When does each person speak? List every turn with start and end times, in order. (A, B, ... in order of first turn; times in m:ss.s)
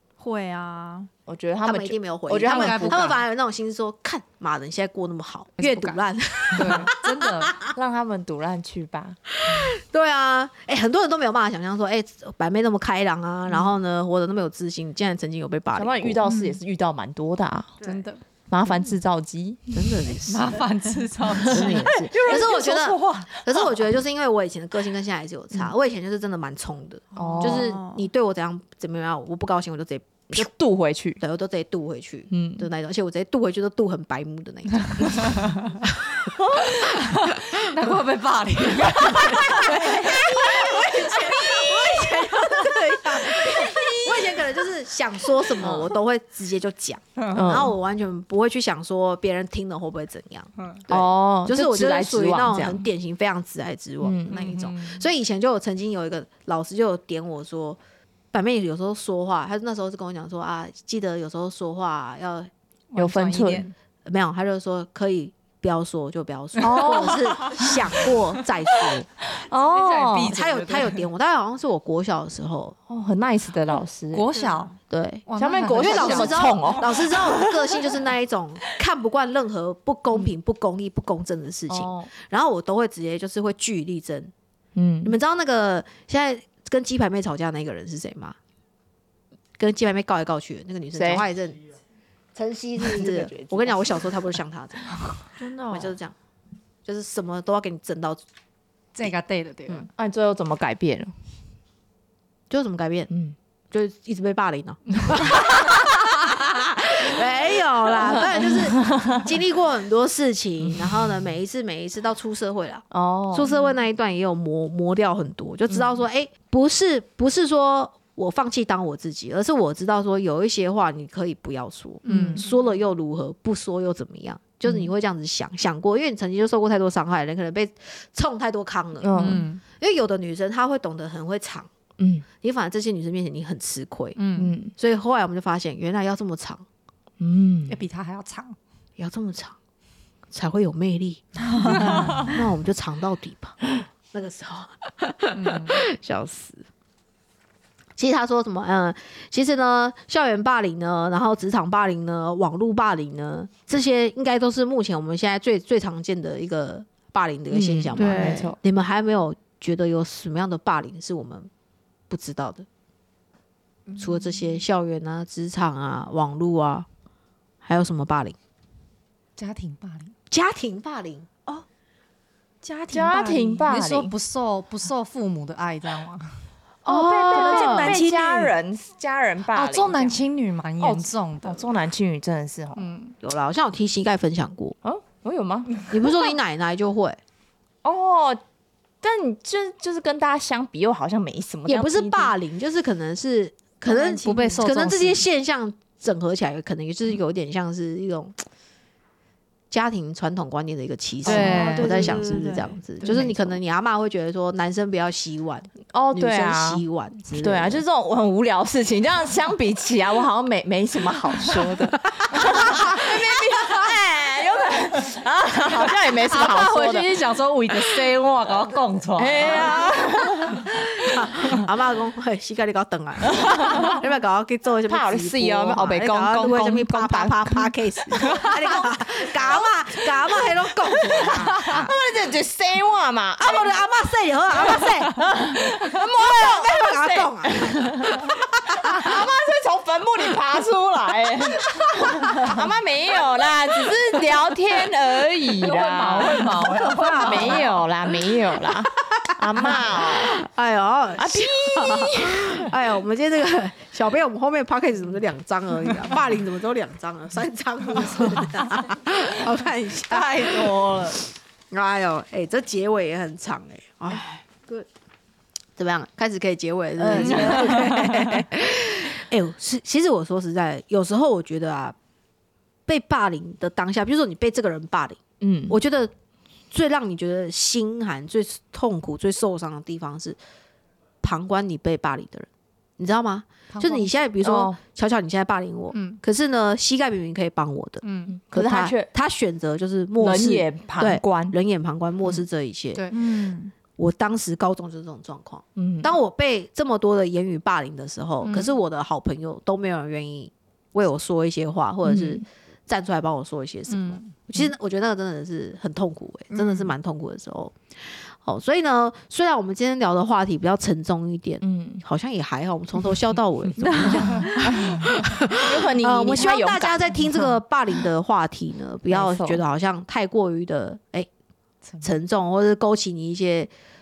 0:00.2-0:01.1 A
0:01.3-0:03.2 B
0:01.6-0:07.2 C
0:02.4-0:03.2 D
0:05.6-0:06.0 D
0:06.5-0:07.6 D
0:06.6-0:06.8 B
0:07.6-0:09.2 B
0:09.4-0:16.2 C
0:15.7-0:17.7 B
0:16.2-0:16.6 D
0:17.8-0:18.2 D
0:18.5-0:19.7 B
0:19.7-0:20.6 C
0:20.3-0:23.4 D
0:21.4-0:22.7 B
0:21.5-0:30.4 C
0:27.1-0:27.8 B
0:27.4-0:28.0 A
0:30.3-0:31.2 B
0:31.2-0:35.4 C
0:32.3-0:32.7 B
0:35.0-0:35.3 B
0:36.9-0:42.7 D
0:39.5-0:57.8 C
0:39.8-0:40.7 B
0:43.4-0:44.0 B
0:43.5-0:43.9 D
0:47.2-0:47.5 D
0:47.3-0:47.7 B
0:50.6-0:50.8 D
0:50.9-0:52.9 B
0:54.0-0:54.4 B
0:54.3-0:55.0 D
0:58.3-1:02.5 C
1:02.9-1:03.7 D
1:02.9-1:03.7 B
1:04.0-1:09.1 C
1:06.6-1:07.7 B
1:06.7-1:07.1 D
1:09.3-1:10.4 B
1:09.6-1:11.0 D
1:10.3-1:12.8 C
1:12.9-1:14.3 B
1:14.1-1:14.8 D
1:14.3-1:14.7 A
1:14.9-1:24.3 C
1:15.3-1:17.4 D
1:15.3-1:17.8 B
1:21.7-1:22.1 B
1:24.7-1:25.2 B
1:25.0-1:28.4 C
1:29.6-1:31.6 C
1:30.9-1:31.2 B
1:32.4-1:35.0 C
1:32.8-1:34.1 B
1:35.4-1:35.9 A
1:35.7-1:36.1 C
1:36.8-1:38.2 C
1:38.9-1:39.9 D
1:39.9-1:41.1 B
1:42.5-1:43.1 C
1:43.1-1:43.3 B
1:43.7-2:11.7 C
1:48.1-1:49.1 B
1:52.9-1:53.5 B
2:02.0-2:02.4 D
2:09.0-2:09.5 B
2:09.1-2:09.6 D
2:12.0-2:12.2 B
2:12.4-2:14.2 C
2:14.1-2:14.6 D
2:14.3-2:14.7 B
2:14.8-2:16.6 C
2:17.2-2:17.8 B
2:17.7-2:18.6 D
2:19.0-2:19.6 C
2:20.3-2:26.6 C
2:21.6-2:22.3 D
2:25.3-2:25.8 D
2:28.0-2:41.5 C
2:37.5-2:38.6 B
2:37.9-2:38.5 A
2:42.1-2:42.7 C
2:44.0-2:46.9 C
2:47.6-2:48.4 C
2:49.4-2:50.1 D
2:50.3-2:51.3 C
2:52.6-2:53.6 A
2:52.9-2:54.1 B
2:53.5-2:56.4 D
2:56.8-3:00.2 B
2:56.9-2:58.0 C
2:57.3-2:58.5 D
2:57.7-2:58.4 A
2:59.5-3:01.7 D
3:00.8-3:02.8 B
3:02.8-3:03.2 D
3:03.2-3:04.8 C
3:04.8-3:06.1 B
3:05.9-3:07.2 C
3:07.8-3:08.4 B
3:09.0-3:12.4 B
3:11.7-3:18.4 C
3:13.8-3:15.3 D
3:14.2-3:14.7 A
3:19.7-3:27.8 C
3:21.2-3:22.4 D
3:21.3-3:23.1 A
3:23.0-3:23.4 D
3:25.9-3:26.8 B
3:27.4-3:37.1 B
3:31.5-3:33.9 D
3:32.2-3:32.6 C
3:35.7-3:39.9 D
3:37.7-3:38.1 B
3:39.2-3:40.7 B
3:40.8-3:51.9 C
3:43.4-3:44.0 B
3:44.9-3:48.8 B
3:49.4-3:49.7 B
3:51.2-3:53.8 B
3:53.4-3:59.1 C
3:54.6-4:10.4 B
4:05.5-4:07.8 D
4:07.3-4:07.6 C
4:09.6-4:20.8 C
4:11.2-4:12.7 B
4:20.1-4:21.2 D
4:21.7-4:24.4 C
4:25.8-4:31.9 C
4:27.0-4:28.4 B
4:27.1-4:28.2 D
4:32.9-4:36.1 C
4:35.4-4:35.8 B
4:36.7-4:40.4 C
4:41.2-4:42.5 C
4:43.0-4:53.0 C
4:43.7-4:44.1 D
4:44.4-4:44.8 B
4:45.9-4:46.2 D
4:48.0-4:48.4 D
4:48.2-4:49.1 B
4:50.2-4:51.6 B
4:52.9-4:53.2 D
4:53.1-4:53.7 A
4:54.0-5:21.3 C
4:55.8-4:56.1 B
4:58.4-4:58.7 D
5:02.0-5:02.4 B
5:03.9-5:04.3 D
5:11.6-5:12.0 B
5:13.8-5:14.8 A
5:14.2-5:14.5 D
5:14.7-5:17.4 B
5:19.1-5:19.6 B
5:21.8-5:22.1 D
5:22.0-5:23.7 C